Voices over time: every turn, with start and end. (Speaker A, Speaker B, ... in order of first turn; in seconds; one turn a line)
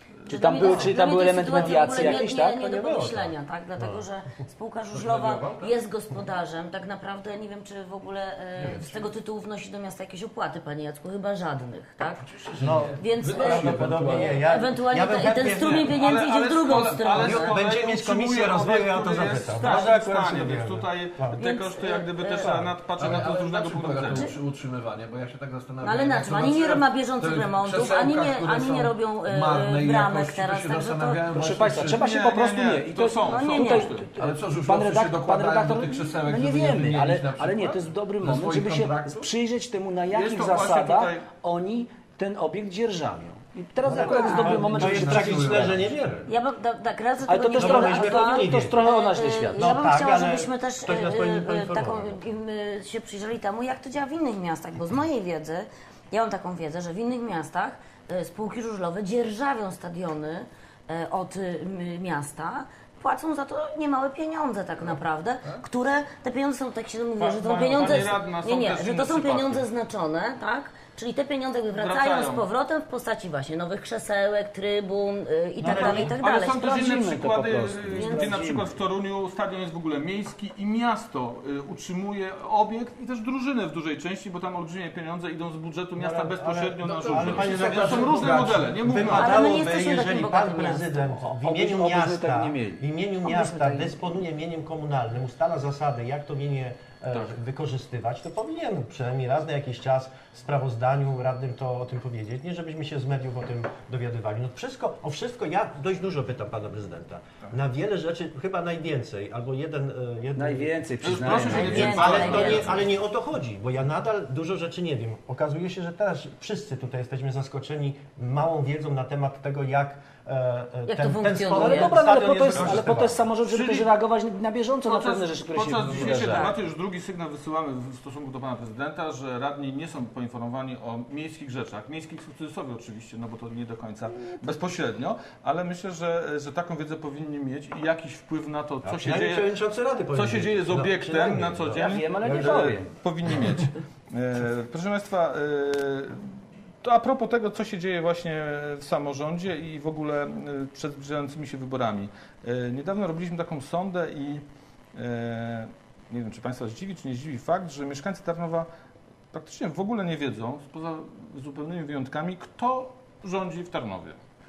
Speaker A: 0.2-12.2
Speaker B: 0.3-3.2
Speaker C: 0.6-4.0
Speaker D: 4.9-5.8
Speaker D: 8.6-9.0
Speaker D: 12.2-14.4
Speaker C: 12.6-15.9
Speaker A: 13.0-17.5
Speaker E: 15.6-24.3
Speaker C: 17.2-21.4
Speaker A: 19.5-19.9
Speaker A: 21.3-22.5
Speaker C: 22.3-22.8
Speaker D: 23.0-32.1
Speaker A: 25.8-31.2
Speaker B: 31.3-45.8
Speaker E: 31.8-34.1
Speaker A: 33.2-33.9
Speaker D: 34.2-39.3
Speaker E: 40.1-41.2
Speaker C: 43.8-46.3
Speaker A: 44.1-44.6
Speaker D: 44.2-46.2
Speaker A: 46.2-76.6
Speaker B: 47.3-49.8
Speaker C: 47.6-48.8
Speaker C: 49.5-52.2
Speaker D: 64.9-65.6
Speaker E: 67.2-69.6
Speaker E: 71.8-72.4
Speaker B: 75.6-78.7
Speaker E: 75.6-89.5
Speaker C: 75.6-76.0
Speaker A: 78.0-78.4
Speaker C: 86.0-123.3
Speaker D: 86.8-88.8
Speaker A: 89.1-91.1
Speaker B: 91.3-92.8
Speaker A: 93.2-94.0
Speaker B: 110.3-112.6
Speaker E: 111.0-112.8
Speaker A: 111.3-112.8
Speaker A: 120.9-122.0
Speaker B: 121.5-126.5
Speaker E: 122.5-122.8
Speaker E: 123.5-123.9
Speaker E: 124.8-139.5
Speaker C: 138.8-142.8
Speaker E: 140.1-158.7
Speaker B: 141.7-142.9
Speaker E: 159.3-164.2